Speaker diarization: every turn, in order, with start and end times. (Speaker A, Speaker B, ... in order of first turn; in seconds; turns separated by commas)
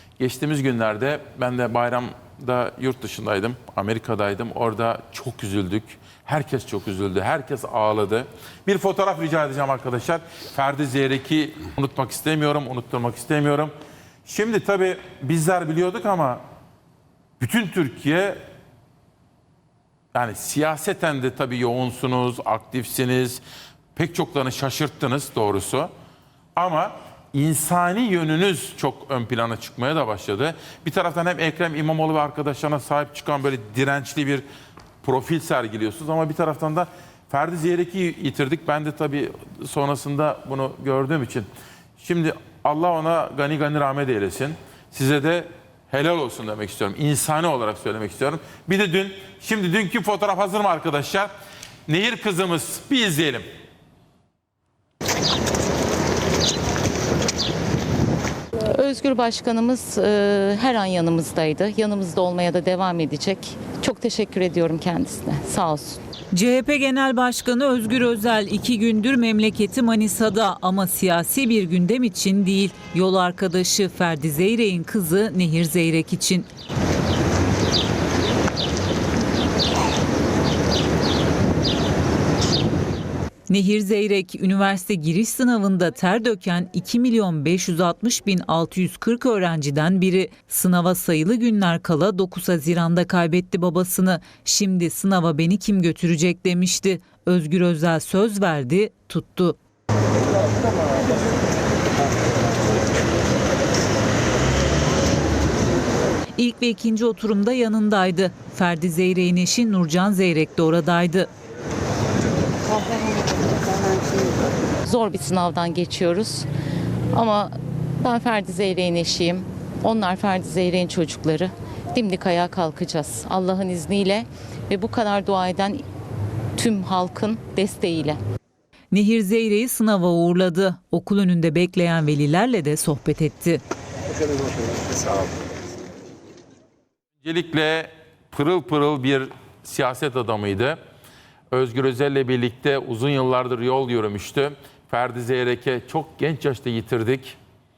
Speaker A: 0.2-13.7, Speaker A: 14.2-16.4, Speaker A: 17.4-18.4, Speaker A: 20.1-23.4, Speaker A: 23.9-25.9, Speaker A: 26.6-34.5, Speaker A: 35.0-51.3, Speaker A: 51.9-53.5, Speaker B: 58.7-66.0, Speaker C: 66.3-76.5, Speaker C: 83.5-99.6, Speaker C: 106.4-111.3, Speaker B: 114.9-116.5, Speaker B: 117.1-125.8, Speaker B: 126.6-128.2, Speaker C: 128.9-133.6, Speaker A: 137.2-140.8, Speaker A: 141.5-147.4